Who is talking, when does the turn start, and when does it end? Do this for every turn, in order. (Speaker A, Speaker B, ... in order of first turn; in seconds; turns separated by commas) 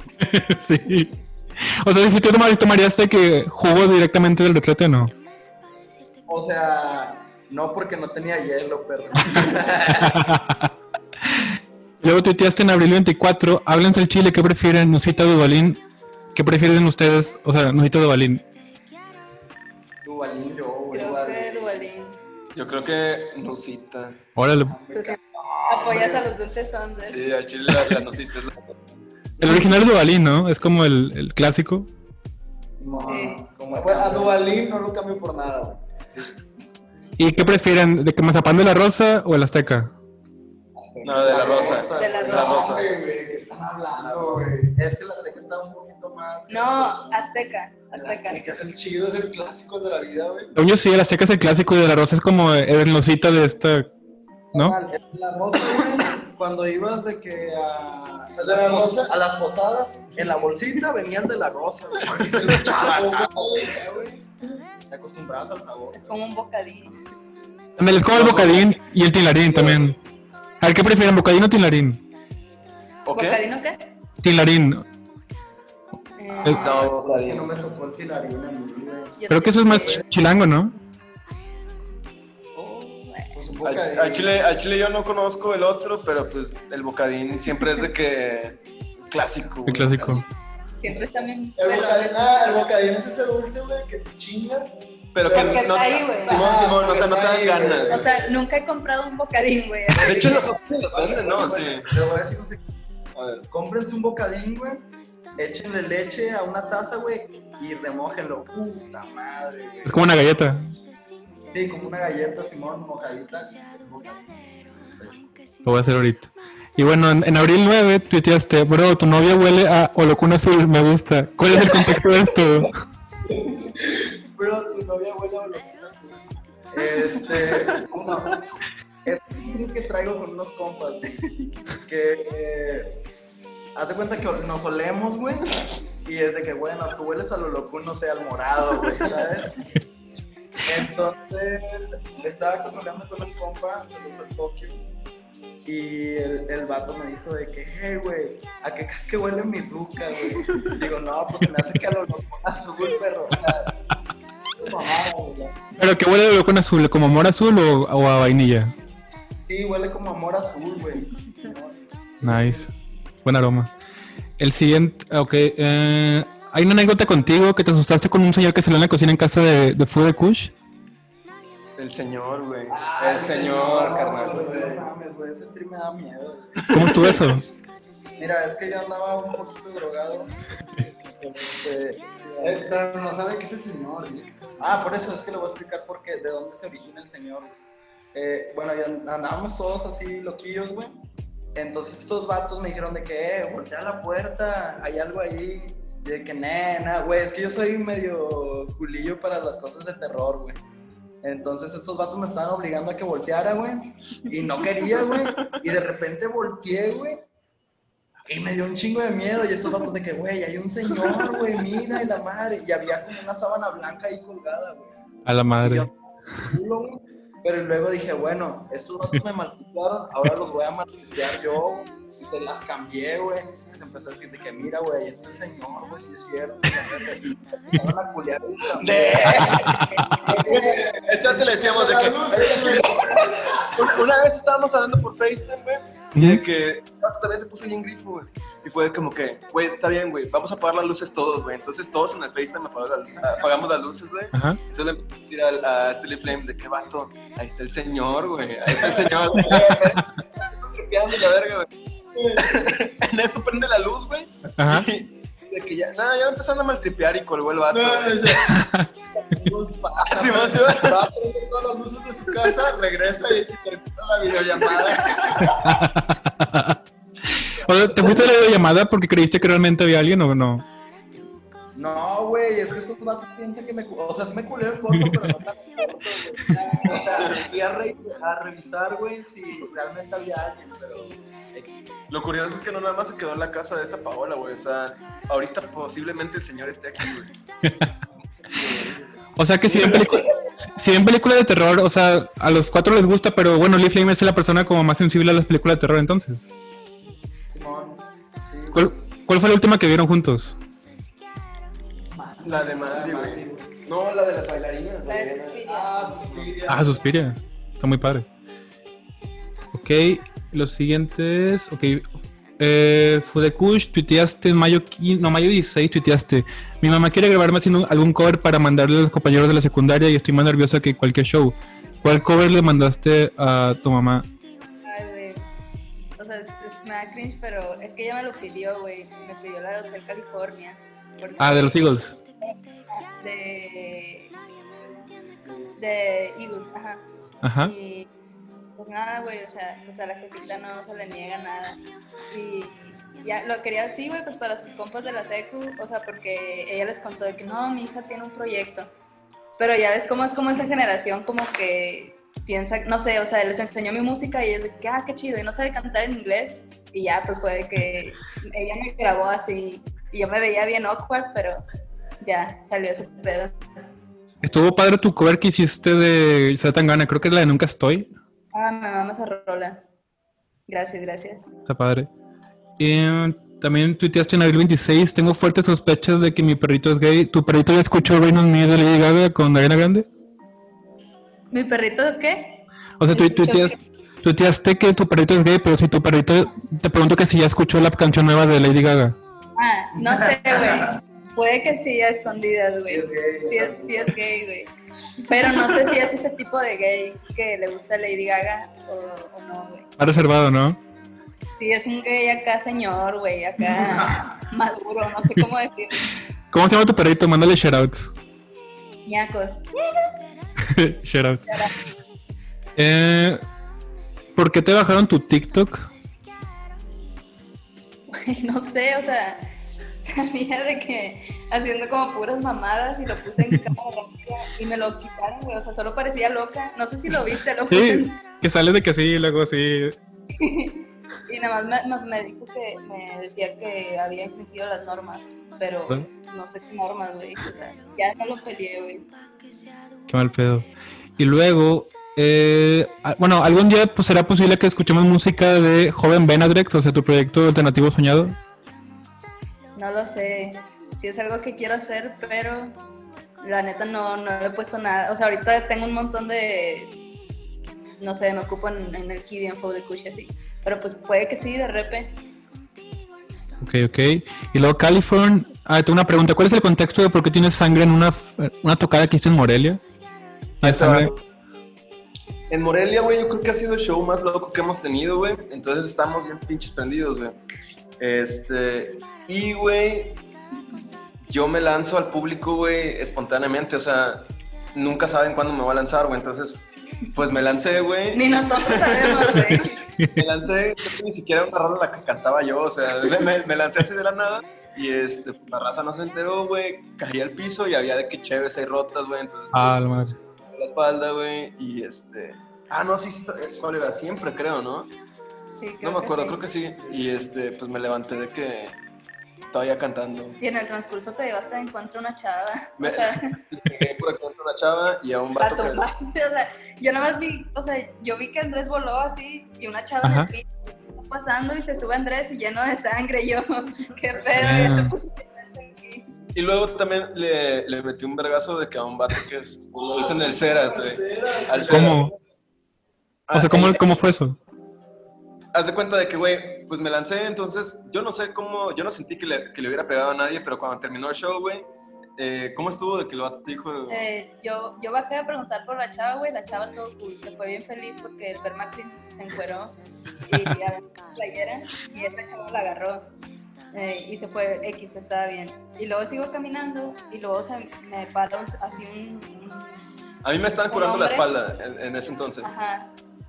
Speaker A: 0.2-5.1, Speaker B: 6.3-10.2, Speaker A: 10.0-10.7, Speaker A: 12.0-15.8, Speaker A: 16.3-18.4, Speaker B: 20.0-21.9, Speaker C: 20.9-22.2, Speaker D: 22.5-24.2, Speaker A: 24.4-24.8, Speaker E: 24.7-25.1, Speaker C: 24.9-27.2, Speaker B: 25.1-26.2, Speaker D: 27.0-28.8, Speaker A: 29.4-31.9, Speaker E: 32.8-35.8, Speaker B: 33.0-34.4, Speaker C: 33.1-33.4, Speaker B: 36.1-36.4, Speaker A: 37.2-39.9, Speaker B: 40.8-42.7, Speaker D: 41.0-42.9, Speaker E: 41.1-44.8, Speaker C: 41.9-42.8, Speaker B: 43.9-47.3, Speaker C: 46.5-48.4, Speaker E: 47.9-50.6, Speaker A: 50.5-53.9, Speaker B: 54.5-64.2, Speaker E: 58.4-59.1, Speaker D: 62.1-62.8, Speaker E: 62.3-64.2, Speaker B: 64.8-66.2, Speaker C: 65.9-67.0, Speaker A: 67.8-70.0, Speaker D: 68.1-68.6, Speaker B: 69.5-69.8, Speaker A: 70.6-72.0, Speaker D: 73.0-73.4, Speaker C: 73.1-73.9, Speaker A: 74.2-74.8, Speaker C: 76.2-76.7, Speaker B: 76.4-79.2, Speaker D: 76.4-77.5, Speaker C: 79.2-80.0, Speaker A: 79.3-80.7, Speaker C: 82.5-83.3, Speaker E: 83.3-84.4, Speaker D: 83.6-90.2, Speaker A: 89.6-90.2, Speaker C: 90.8-92.6, Speaker E: 91.5-98.3, Speaker D: 95.1-98.0, Speaker C: 95.3-96.4, Speaker C: 97.9-100.5, Speaker D: 99.9-102.1, Speaker B: 100.0-102.6, Speaker D: 103.1-103.5, Speaker B: 103.5-110.1, Speaker A: 109.8-110.7, Speaker B: 111.5-114.3, Speaker B: 114.9-115.3, Speaker A: 115.6-122.7, Speaker B: 121.5-122.7, Speaker B: 123.3-133.0, Speaker D: 127.3-127.7, Speaker B: 133.8-139.6, Speaker D: 138.9-139.1, Speaker B: 140.6-144.8, Speaker B: 145.6-153.8, Speaker E: 154.6-155.5, Speaker B: 154.7-155.1, Speaker A: 155.8-158.7, Speaker B: 159.5-161.8, Speaker E: 162.2-162.7, Speaker A: 162.2-162.7, Speaker A: 163.2-163.7, Speaker A: 164.4-170.5, Speaker D: 171.8-174.5, Speaker E: 172.7-174.9, Speaker B: 173.0-177.2, Speaker D: 176.6-177.2, Speaker A: 176.7-177.4, Speaker B: 178.2-180.3, Speaker B: 181.2-182.6, Speaker E: 182.4-185.1, Speaker B: 184.6-187.6, Speaker B: 188.1-200.6, Speaker B: 201.2-207.2, Speaker D: 204.9-205.5, Speaker B: 208.2-214.9, Speaker A: 215.2-215.9, Speaker B: 215.5-231.4, Speaker D: 228.8-251.7, Speaker A: 229.6-230.2, Speaker E: 230.3-233.7, Speaker A: 236.1-236.4, Speaker A: 244.3-244.6, Speaker E: 248.7-249.8, Speaker B: 249.5-249.9, Speaker E: 252.1-252.7, Speaker D: 252.3-258.5, Speaker A: 254.6-254.9, Speaker E: 257.7-258.6, Speaker A: 258.5-258.9, Speaker E: 259.1-265.8, Speaker D: 260.1-261.1, Speaker A: 265.4-266.8, Speaker A: 267.4-270.6, Speaker B: 267.6-268.2, Speaker B: 271.7-281.7, Speaker D: 277.1-277.4, Speaker D: 282.1-287.3, Speaker A: 287.6-287.9, Speaker B: 288.5-289.1, Speaker A: 289.4-296.5, Speaker B: 289.7-290.1, Speaker B: 297.5-298.8, Speaker A: 298.7-300.5, Speaker E: 302.1-303.3, Speaker D: 302.4-305.4, Speaker B: 302.9-303.6, Speaker C: 305.0-305.9, Speaker E: 305.1-307.0, Speaker A: 306.7-308.2, Speaker A: 309.7-312.0, Speaker A: 312.6-324.2, Speaker C: 324.8-325.4, Speaker C: 326.2-334.3, Speaker A: 331.4-332.1, Speaker B: 335.4-335.7, Speaker C: 335.8-337.0, Speaker A: 337.4-337.7, Speaker C: 337.6-338.1, Speaker C: 338.8-348.9, Speaker C: 349.6-361.6, Speaker C: 362.2-363.8, Speaker A: 364.4-368.1, Speaker C: 368.5-369.8, Speaker C: 370.7-371.5, Speaker A: 371.7-372.1, Speaker A: 372.8-380.1, Speaker C: 381.5-383.8, Speaker A: 383.0-389.1, Speaker C: 389.6-394.7, Speaker B: 390.1-390.8, Speaker B: 392.9-394.2, Speaker C: 395.2-399.9, Speaker A: 400.0-400.8, Speaker C: 401.6-406.1, Speaker B: 403.9-404.2, Speaker A: 406.5-408.1, Speaker C: 409.1-410.1, Speaker A: 410.6-411.6, Speaker C: 411.5-411.7, Speaker A: 412.8-413.4, Speaker A: 414.3-415.9, Speaker C: 418.1-419.4, Speaker C: 420.0-428.2, Speaker A: 427.7-429.9, Speaker C: 430.3-439.1, Speaker A: 440.1-448.4, Speaker C: 449.7-452.8, Speaker C: 453.4-457.0, Speaker C: 458.0-462.2, Speaker A: 463.6-469.8, Speaker D: 470.6-471.2, Speaker A: 470.6-471.1, Speaker D: 472.5-477.4, Speaker D: 478.0-480.2, Speaker C: 480.6-480.8, Speaker D: 481.2-489.4, Speaker C: 488.1-489.8, Speaker A: 489.5-490.2, Speaker D: 490.2-504.9, Speaker A: 499.5-500.2, Speaker C: 505.6-506.4, Speaker D: 505.8-508.8, Speaker D: 509.5-510.4, Speaker C: 510.4-513.3, Speaker D: 512.8-515.8, Speaker C: 515.4-526.1, Speaker A: 520.0-520.3, Speaker A: 524.3-524.9, Speaker D: 526.3-532.1, Speaker E: 529.9-532.1, Speaker A: 531.7-532.1, Speaker D: 533.3-533.8, Speaker A: 533.3-534.4, Speaker D: 535.5-544.1, Speaker C: 543.9-553.1, Speaker C: 553.7-559.9, Speaker D: 560.2-562.5, Speaker C: 560.7-561.3, Speaker C: 562.4-562.9